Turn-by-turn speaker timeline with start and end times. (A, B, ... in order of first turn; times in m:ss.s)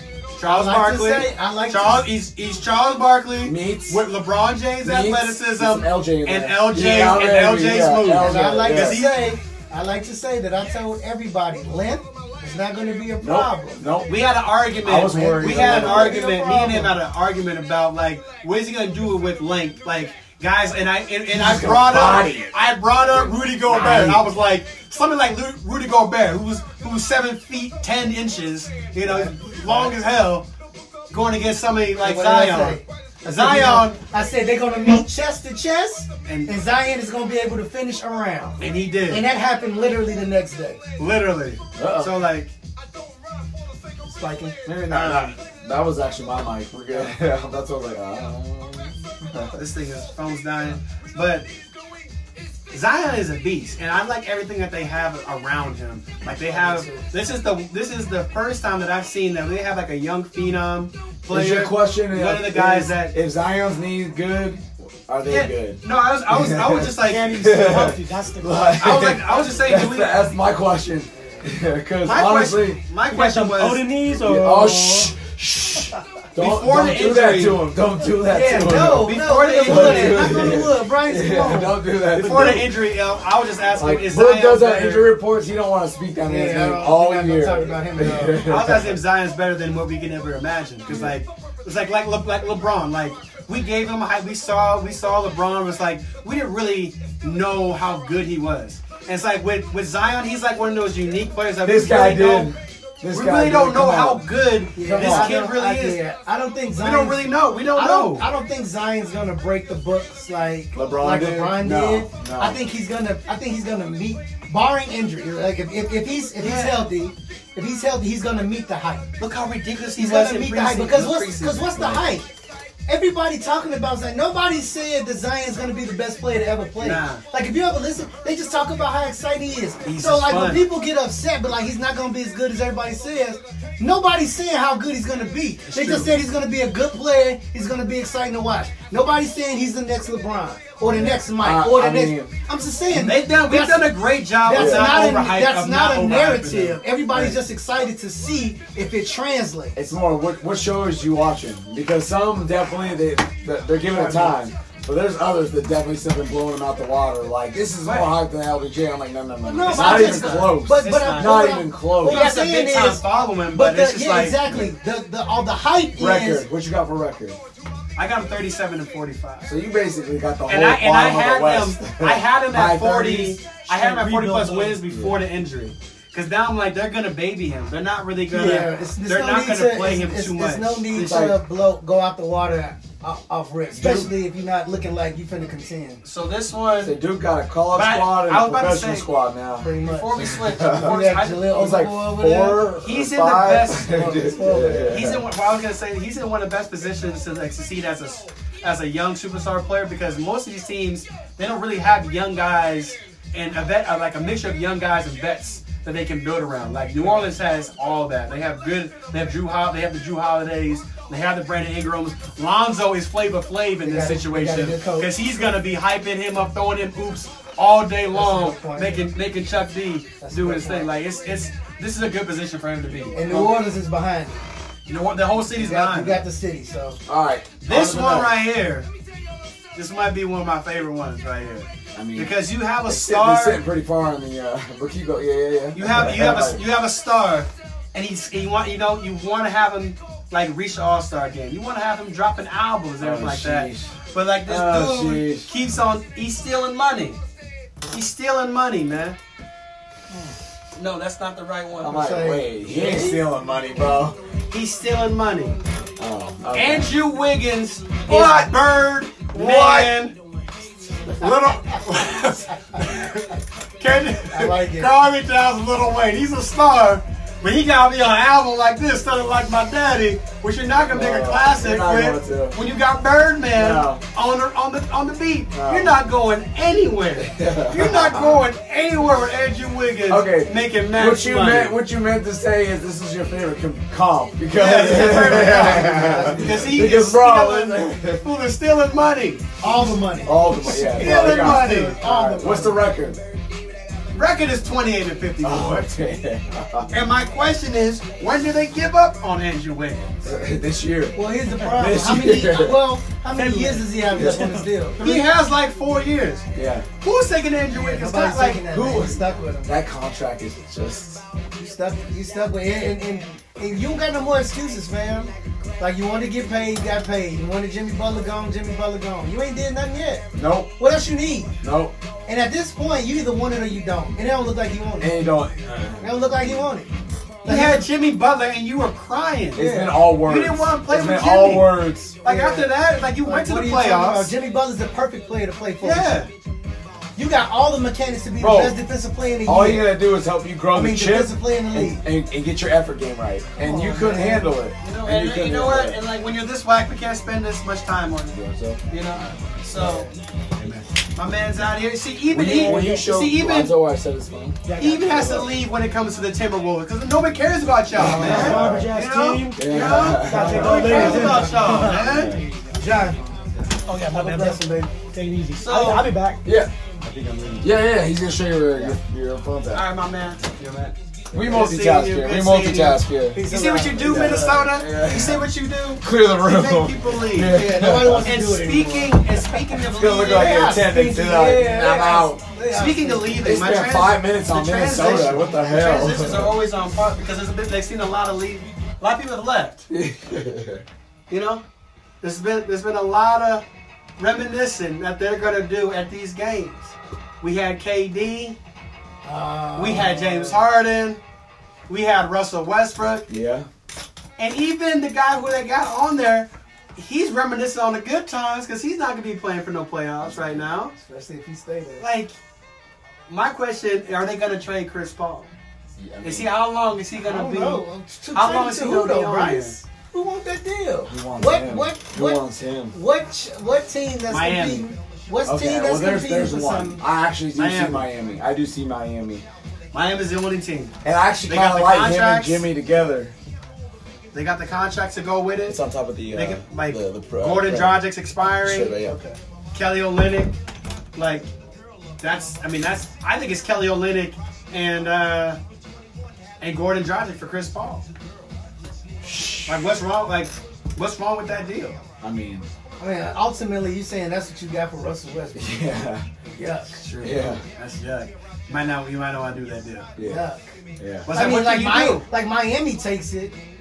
0:00.4-0:09.4 A
0:00.5-0:02.1 B
0:03.4-0:04.0 C
0:04.8-0:09.0 C
0:08.2-0:13.8 B
0:13.2-0:14.3 C
0:14.1-0:30.5 A
0:14.8-0:16.2 C
0:15.1-0:17.0 B
0:21.3-0:22.6 C
0:23.1-0:24.3 C
0:29.0-0:29.9 B
0:31.1-0:34.0 A
0:32.0-0:40.8 B
0:36.3-0:36.5 A
0:38.6-0:39.2 A
0:41.0-0:42.5 A
0:41.8-0:42.1 C
0:44.0-0:44.6 B
0:44.6-0:49.6 C
0:44.9-0:45.4 A
0:49.5-0:51.5 A
0:52.7-1:03.2 A
0:56.3-0:57.1 B
1:01.3-1:12.8 C
1:05.3-1:07.4 A
1:06.9-1:09.2 D
1:08.8-1:10.2 A
1:12.0-1:13.9 A
1:13.1-1:15.1 D
1:14.2-1:22.8 C
1:16.4-1:17.6 A
1:18.3-1:21.8 B
1:18.6-1:20.6 A
1:22.1-1:25.1 A
1:23.8-1:29.0 C
1:26.3-1:28.4 B
1:28.4-1:42.5 A
1:30.9-1:31.2 C
1:41.6-1:44.2 C
1:43.1-1:46.0 A
1:44.8-1:59.1 B
1:44.8-1:45.4 C
1:46.8-1:48.3 A
1:50.8-1:52.6 C
1:56.4-1:56.9 A
1:59.2-2:01.8 A
2:00.0-2:02.3 B
2:01.8-2:02.0 C
2:02.9-2:29.8 B
2:06.8-2:07.2 A
2:09.8-2:10.7 A
2:15.7-2:16.1 A
2:20.9-2:22.4 C
2:22.9-2:26.8 A
2:24.5-2:25.0 C
2:27.1-2:27.4 C
2:29.8-2:42.3 C
2:34.0-2:34.3 B
2:37.8-2:38.2 A
2:39.4-2:46.4 B
2:39.6-2:41.5 A
2:42.0-2:44.4 A
2:44.4-2:44.7 C
2:46.0-2:47.4 C
2:48.0-2:49.5 A
2:49.4-2:53.4 C
2:50.5-3:01.3 A
2:53.7-2:54.8 D
2:54.9-2:55.2 C
2:58.3-3:06.0 B
3:01.0-3:01.4 C
3:03.7-3:04.1 C
3:06.0-3:07.0 A
3:06.8-3:15.3 C
3:07.7-3:09.1 A
3:09.6-3:10.1 B
3:09.8-3:11.7 A
3:10.8-3:12.7 B
3:12.8-3:13.9 A
3:13.8-3:15.0 B
3:14.9-3:43.7 A
3:33.8-3:35.1 B
3:38.1-3:39.1 B
3:40.2-3:40.9 B
3:43.1-3:44.4 B
3:44.9-3:46.2 A
3:45.6-3:47.0 B
3:47.1-3:48.4 C
3:47.6-3:48.9 A
3:49.8-3:53.6 A
3:52.0-3:56.6 C
3:55.8-4:07.2 A
4:03.0-4:03.9 C
4:04.5-4:05.5 C
4:07.9-4:09.2 A
4:10.8-4:12.2 A
4:11.8-4:14.2 C
4:11.9-4:13.2 B
4:14.5-4:15.6 A
4:16.0-4:16.9 C
4:16.5-4:20.2 A
4:18.1-4:18.5 C
4:19.3-4:19.9 C
4:21.1-4:41.8 A
4:24.3-4:24.9 B
4:30.8-4:32.6 C
4:33.6-4:34.0 C
4:35.5-4:36.0 C
4:37.2-4:38.5 C
4:40.1-4:48.2 C
4:44.5-4:49.4 A
4:45.6-4:46.6 B
4:49.6-4:52.8 B
4:50.2-4:53.2 C
4:50.6-4:52.0 A
4:54.1-4:55.9 A
4:55.4-4:56.9 C
4:56.9-5:00.2 A
5:00.2-5:02.9 C
5:01.2-5:05.3 B
5:03.3-5:04.7 D
5:04.1-5:04.5 C
5:05.0-5:06.5 A
5:06.6-5:06.9 C
5:07.0-5:08.6 A
5:07.7-5:09.7 B
5:08.7-5:11.2 C
5:11.5-5:20.3 B
5:20.3-5:20.7 C
5:20.8-5:21.5 B
5:21.6-5:22.0 C
5:22.3-5:25.2 B
5:25.0-5:26.7 C
5:26.0-5:26.9 B
5:27.4-5:27.8 B
5:27.4-5:34.3 A
5:29.6-5:32.2 C
5:29.6-5:30.0 B
5:32.2-5:36.2 B
5:35.8-5:36.3 A
5:37.2-5:40.0 B
5:38.4-5:38.8 C
5:39.4-5:46.0 C
5:40.7-5:42.0 B
5:43.6-5:44.6 B
5:44.8-5:48.4 A
5:48.3-5:50.1 C
5:48.9-5:53.7 A
5:52.3-5:55.5 C
5:52.4-5:53.0 D
5:54.7-5:55.4 D
5:54.8-6:02.4 A
5:57.9-5:58.9 C
5:58.0-6:02.5 D
5:58.1-5:58.8 B
5:59.5-6:02.4 C
6:00.6-6:01.8 B
6:02.8-6:03.3 B
6:03.9-6:06.4 D
6:04.1-6:04.9 B
6:05.6-6:06.1 A
6:06.4-6:06.7 C
6:07.0-6:07.7 D
6:07.6-6:09.9 C
6:09.7-6:20.7 A
6:11.3-6:13.4 C
6:13.3-6:14.7 B
6:14.0-6:18.3 C
6:17.5-6:19.2 B
6:19.7-6:22.4 C
6:20.2-6:23.5 B
6:22.7-6:29.9 A
6:23.4-6:26.6 C
6:29.9-6:30.8 C
6:31.3-6:31.6 A
6:32.2-6:33.6 A
6:34.2-6:38.6 A
6:39.2-6:40.6 B
6:39.8-6:41.2 A
6:41.9-6:43.3 A
6:43.3-6:43.7 C
6:44.4-6:50.9 A
6:50.2-6:50.7 C
6:50.9-6:52.1 B
6:52.0-6:52.3 A
6:53.3-6:55.5 A
6:56.0-6:56.5 C
6:56.2-6:57.8 A
6:57.2-7:07.0 B
6:58.3-6:59.8 A
7:01.1-7:02.9 C
7:04.3-7:04.9 A
7:05.4-7:09.4 C
7:07.5-7:08.1 A
7:09.9-7:10.9 A
7:11.0-7:13.3 C
7:11.5-7:12.6 A
7:14.3-7:15.8 A
7:15.6-7:19.2 C
7:16.3-7:19.0 A
7:19.1-7:19.4 B
7:19.7-7:20.5 A
7:21.2-7:21.5 A
7:22.2-7:25.6 A
7:26.6-7:28.1 A
7:29.2-7:29.9 C
7:29.7-7:32.0 A
7:32.2-7:32.7 C
7:33.0-7:35.9 B
7:35.6-7:36.3 C
7:36.6-7:37.0 B
7:37.0-7:40.1 A
7:37.2-7:37.6 C
7:40.2-7:40.4 C
7:40.2-7:40.7 B
7:41.0-7:41.3 C
7:41.3-7:42.2 A
7:41.3-7:43.6 B